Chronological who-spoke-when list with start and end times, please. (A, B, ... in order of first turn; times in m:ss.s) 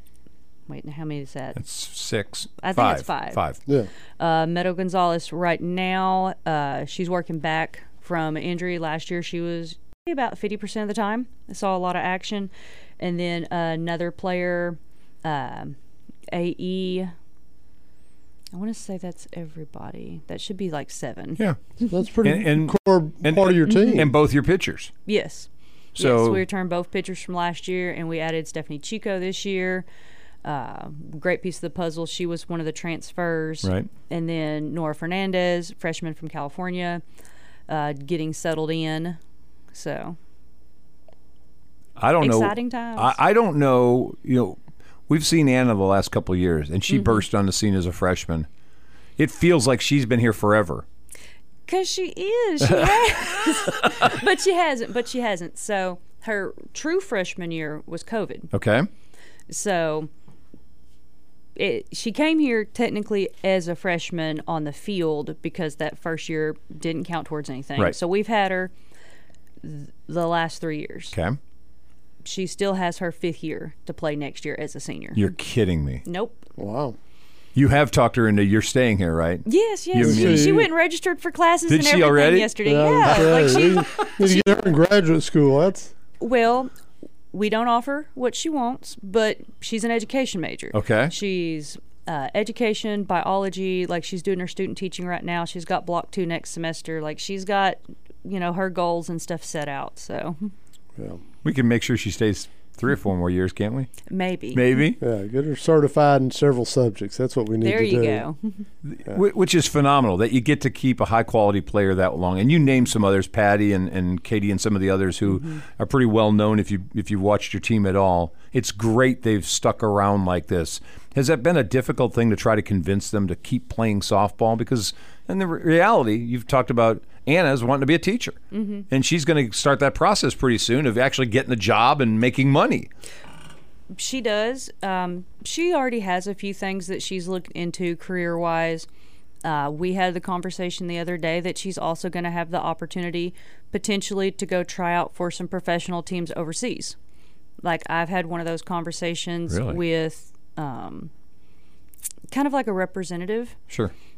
0:00.7-0:01.6 A
0:01.6-0:03.6 B
0:02.6-0:03.4 A
0:04.2-0:15.8 A
0:16.3-0:17.1 A
0:18.5-0:21.4 A
0:21.9-0:24.1 C
0:22.2-0:24.9 B
0:25.1-0:29.9 A
0:26.0-0:26.4 B
0:30.4-0:37.0 A
0:33.6-0:33.9 B
0:37.7-0:39.2 A
0:39.7-0:40.2 A
0:42.0-0:48.5 B
0:42.2-0:43.2 A
0:46.9-0:47.2 A
0:49.2-0:50.8 B
0:51.7-0:58.5 A
0:52.6-0:54.1 B
0:58.5-0:58.9 B
0:59.5-1:00.1 A
1:01.6-1:08.7 A
1:09.6-1:11.2 A
1:11.1-1:11.4 B
1:12.2-1:15.2 A
1:15.1-1:16.0 B
1:16.0-1:16.4 A
1:16.6-1:17.0 C
1:17.6-1:20.6 B
1:19.4-1:24.7 A
1:20.0-1:20.7 C
1:21.7-1:22.5 B
1:22.6-1:25.9 C
1:26.2-1:26.7 A
1:27.3-1:40.5 A
1:30.7-1:31.1 B
1:41.4-1:43.9 B
1:44.1-1:44.7 A
1:44.5-1:45.0 B
1:45.0-1:48.2 C
1:47.6-1:48.7 A
1:48.8-2:08.4 B
2:08.5-2:08.8 A
2:08.9-2:12.9 B
2:13.9-2:18.9 A
2:19.4-2:27.0 A
2:27.6-2:31.1 A
2:29.5-2:29.8 B
2:32.3-2:33.6 A